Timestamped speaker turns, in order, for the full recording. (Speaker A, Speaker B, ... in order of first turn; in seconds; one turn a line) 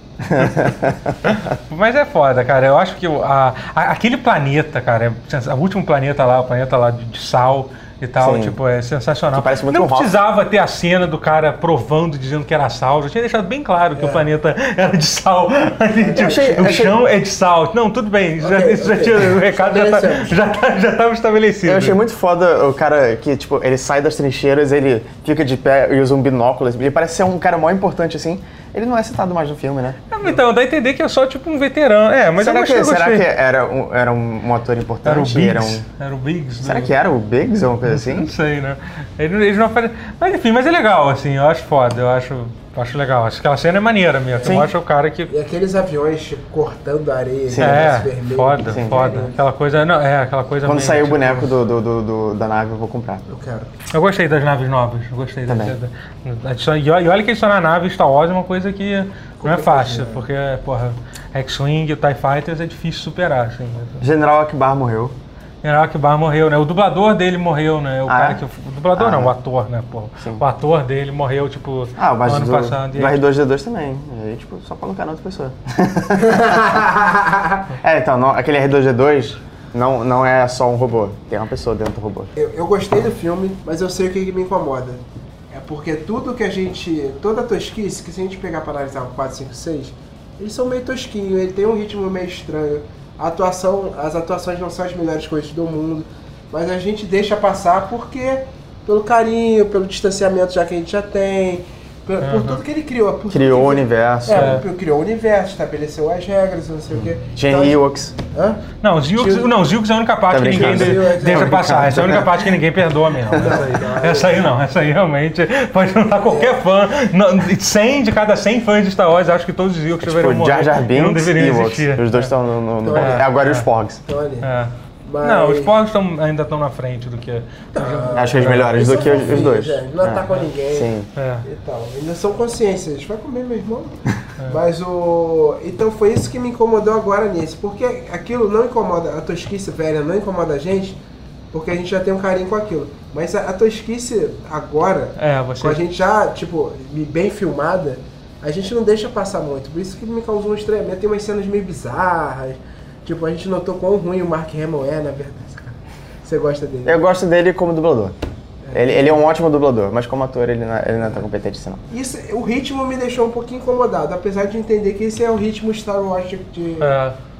Speaker A: 0.2-1.4
Speaker B: 1.3-22.0
Speaker A: 8.2-8.6
Speaker A: 9.3-10.1
Speaker C: 13.9-14.2
Speaker C: 16.1-16.9
Speaker A: 16.1-17.0
Speaker C: 18.4-20.4
Speaker A: 21.6-30.0
Speaker B: 30.1-33.3
Speaker A: 32.4-35.8
Speaker B: 35.0-37.0
Speaker A: 36.6-38.3
Speaker B: 37.9-45.3
Speaker A: 44.4-44.7
Speaker C: 45.3-49.4
Speaker A: 47.5-47.9
Speaker B: 47.6-51.5
Speaker A: 48.7-49.1
Speaker A: 50.6-53.2
Speaker C: 53.3-53.7
Speaker B: 53.9-64.0
Speaker A: 55.5-55.8
Speaker C: 59.4-60.2
Speaker A: 64.0-65.1
Speaker B: 65.6-73.2
Speaker A: 68.1-68.4
Speaker A: 69.0-69.3
Speaker A: 72.0-76.9
Speaker C: 76.2-77.6
Speaker A: 77.7-82.3
Speaker C: 82.3-108.6
Speaker B: 102.2-102.6
Speaker A: 103.3-104.6
Speaker B: 104.3-104.6
Speaker A: 106.9-108.1
Speaker B: 108.8-122.3
Speaker C: 109.2-109.5
Speaker A: 110.3-112.5
Speaker C: 110.4-111.5
Speaker A: 113.3-113.6
Speaker C: 113.3-114.5
Speaker C: 116.2-116.6
Speaker A: 120.0-124.0
Speaker C: 122.8-123.3
Speaker B: 122.9-123.7
Speaker C: 124.0-124.5
Speaker B: 124.4-129.3
Speaker C: 125.0-125.7
Speaker C: 127.7-130.9
Speaker A: 128.1-131.1
Speaker B: 131.2-131.4
Speaker C: 131.4-141.0
Speaker C: 141.5-157.0
Speaker B: 145.2-145.8
Speaker A: 156.8-158.2
Speaker C: 158.6-159.2
Speaker A: 158.7-161.8
Speaker C: 161.9-167.0
Speaker B: 166.8-167.1